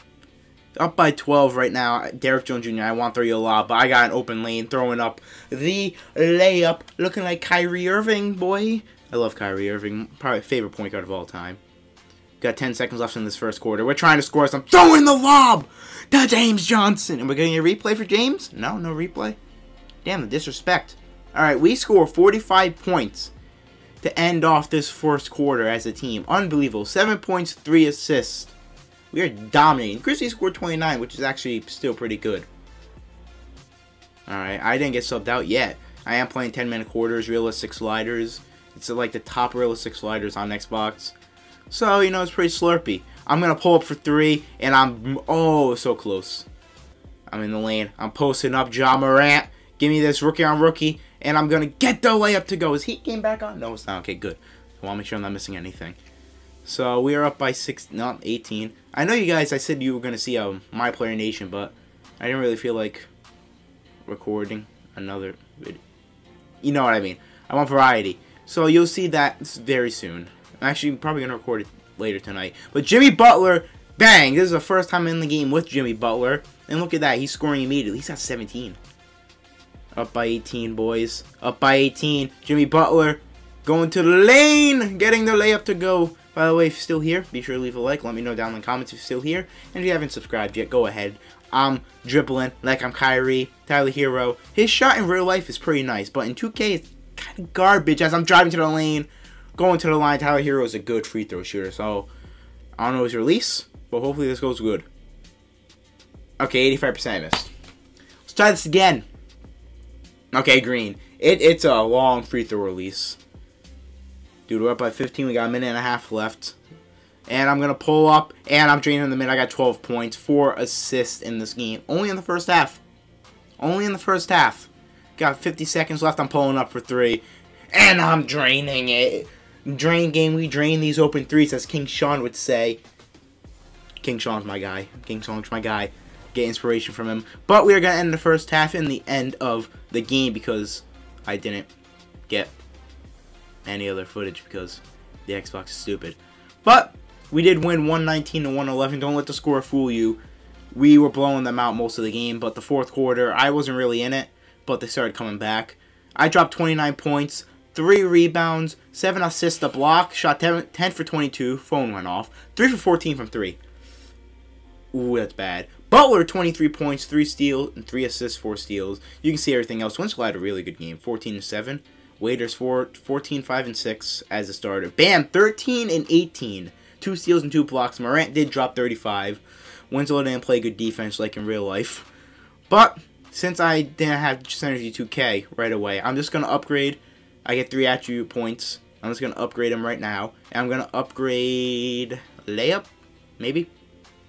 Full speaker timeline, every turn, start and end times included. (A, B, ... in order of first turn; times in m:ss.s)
0:00.8-0:11.6 A
0:12.4-0:19.4 A
0:20.0-0:23.3 A
0:24.0-0:28.5 A
0:29.1-0:32.5 A
0:34.3-0:41.1 A
0:41.7-0:46.4 A
0:47.3-0:56.0 A
0:56.6-1:03.1 A
1:04.1-1:05.8 A
1:06.6-1:18.8 A
1:20.0-1:42.1 A
1:42.8-1:44.8 A
1:46.4-1:47.5 A
1:48.2-1:49.0 A
1:50.3-1:53.2 A
1:54.5-1:56.6 A
1:57.3-2:02.8 A
2:03.6-2:12.8 A
2:14.0-2:21.7 A
2:22.3-2:22.5 A
2:23.6-2:30.2 A
2:30.7-2:43.6 A
2:44.9-3:02.1 A
3:02.7-3:12.9 A
3:13.4-3:13.7 A